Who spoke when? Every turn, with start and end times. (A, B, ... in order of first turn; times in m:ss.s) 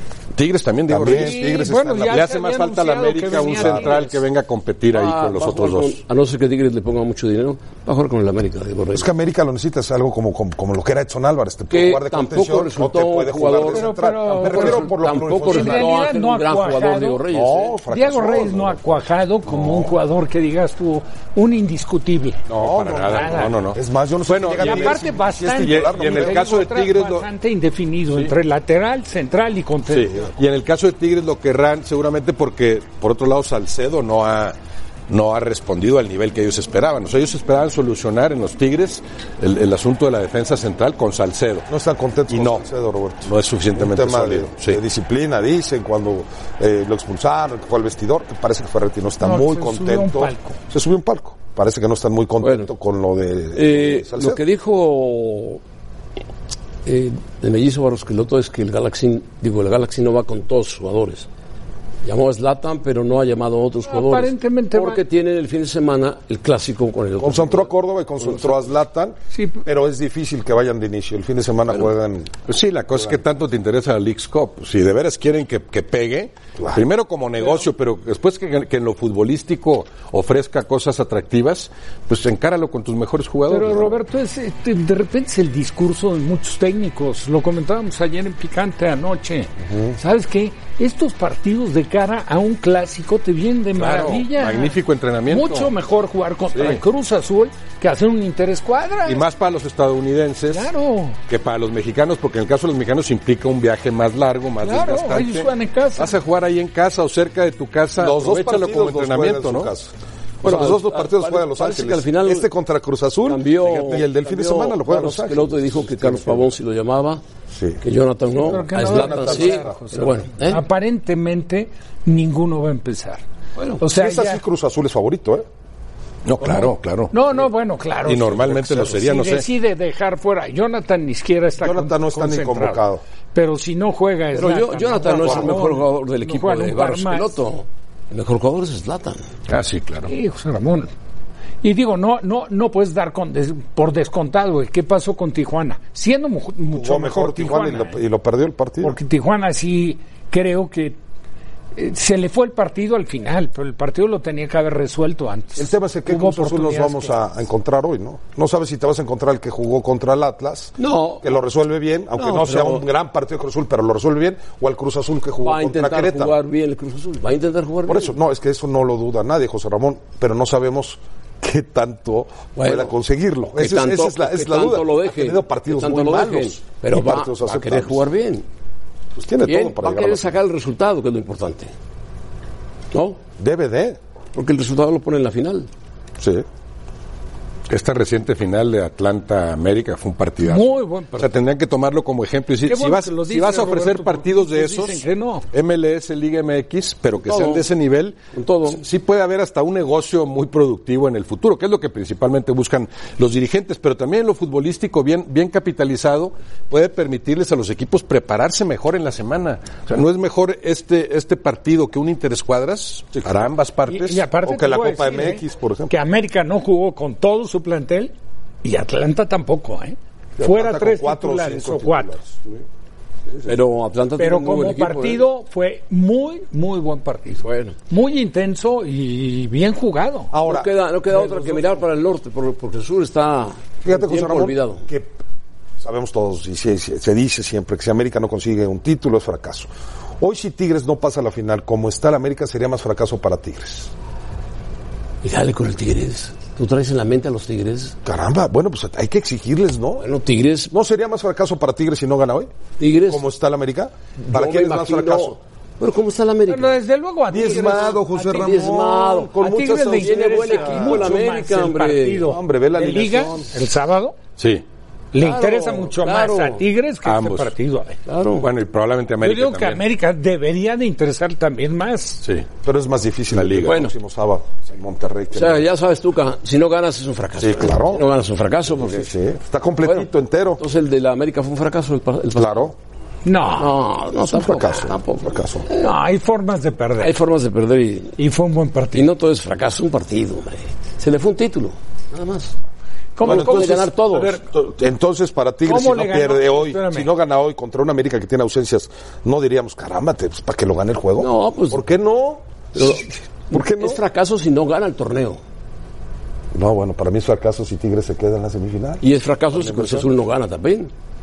0:00.4-0:06.0 A
0:00.9-0:02.3 B
0:01.0-0:04.2 C
0:03.5-0:04.0 B
0:04.9-0:09.1 D
0:08.9-0:16.0 B
0:11.7-0:17.7 D
0:13.6-0:17.2 C
0:17.3-0:18.9 B
0:17.9-0:22.4 C
0:19.5-0:19.9 B
0:22.5-0:27.3 A
0:22.5-0:26.5 B
0:23.1-0:23.6 C
0:24.6-0:30.2 C
0:29.9-0:34.6 A
0:35.1-0:41.7 A
0:41.7-0:54.4 B
0:42.3-0:42.7 A
0:43.2-0:44.8 A
0:49.2-0:50.6 C
0:52.4-0:52.7 D
0:53.5-0:55.6 D
0:56.8-1:01.3 D
1:02.0-1:07.7 D
1:03.9-1:05.0 C
1:07.2-1:12.3 B
1:08.2-1:08.5 D
1:09.3-1:09.6 C
1:12.5-1:24.0 A
1:16.6-1:16.8 B
1:23.5-1:34.8 C
1:33.8-1:35.7 A
1:35.3-1:39.2 C
1:36.5-1:36.8 A
1:39.1-1:40.7 A
1:40.5-1:41.2 C
1:41.3-1:49.7 A
1:44.6-1:46.1 C
1:48.0-1:49.9 B
1:50.4-1:52.5 D
1:50.4-1:56.6 B
1:53.2-1:57.2 D
1:57.5-1:57.8 B
1:57.8-2:00.6 D
1:58.4-2:03.2 C
1:58.4-1:59.9 B
2:03.8-2:04.4 C
2:03.9-2:05.5 B
2:06.2-2:07.1 A
2:07.1-2:12.8 C
2:08.0-2:09.4 A
2:11.6-2:13.0 B
2:13.3-2:17.3 C
2:14.4-2:19.2 D
2:15.1-2:15.7 B
2:19.5-2:20.1 A
2:20.1-2:20.9 C
2:21.6-2:28.0 C
2:26.7-2:28.9 B
2:28.8-2:31.0 C
2:31.8-2:37.2 C
2:35.6-2:46.4 B
2:40.8-2:41.3 D
2:42.2-2:42.8 D
2:45.4-2:48.1 D
2:47.9-2:58.1 B
2:52.6-2:52.9 D
2:53.5-2:58.4 D
2:59.2-3:00.4 B
2:59.4-3:01.7 D
3:02.9-3:03.2 D
3:03.4-3:04.0 B
3:04.4-3:05.7 D
3:06.2-3:06.4 B
3:07.7-3:34.2 A
3:10.4-3:11.3 C
3:12.7-3:15.5 C
3:17.3-3:17.7 D
3:18.3-3:18.8 D
3:33.2-3:33.5 B
3:33.9-3:38.1 C
3:34.4-3:35.9 B
3:38.6-3:42.2 C
3:40.4-3:42.6 B
3:43.4-3:45.2 D
3:44.2-3:50.3 C
3:47.4-3:47.8 D
3:50.3-3:51.6 B
3:50.4-3:54.8 D
3:53.8-3:55.2 B
3:55.8-3:59.7 B
4:00.2-4:03.9 B
4:05.2-4:08.0 D
4:08.0-4:10.1 B
4:10.0-4:10.7 D
4:10.7-4:12.5 B
4:12.8-4:13.2 D
4:13.0-4:15.4 B
4:14.2-4:16.8 D
4:16.5-4:18.5 C
4:17.3-4:21.2 B
4:18.2-4:22.3 D
4:19.4-4:24.2 C
4:22.2-4:23.5 B
4:24.4-4:24.6 A
4:25.1-4:28.0 C
4:25.2-4:26.6 D
4:27.0-4:27.5 A
4:28.1-4:28.5 D
4:28.4-4:29.8 A
4:29.2-4:32.2 C
4:32.6-4:35.7 B
4:33.3-4:33.8 A
4:33.6-4:33.9 D
4:35.3-4:39.1 D
4:37.4-4:38.1 B
4:38.7-4:40.6 B
4:39.8-4:42.7 D
4:42.4-4:42.8 B
4:43.2-4:43.8 C
4:43.6-4:45.4 D
4:44.3-4:45.7 B
4:44.4-4:44.8 C
4:45.7-4:47.2 C
4:47.0-4:48.2 D
4:48.2-4:49.1 C
4:48.9-4:52.5 D
4:53.2-4:54.4 C
4:53.2-4:54.4 D
4:53.2-5:03.0 B
4:55.6-4:57.1 C
5:01.2-5:01.8 D
5:02.8-5:05.4 D
5:03.5-5:04.0 B
5:06.5-5:10.1 B
5:09.0-5:10.9 D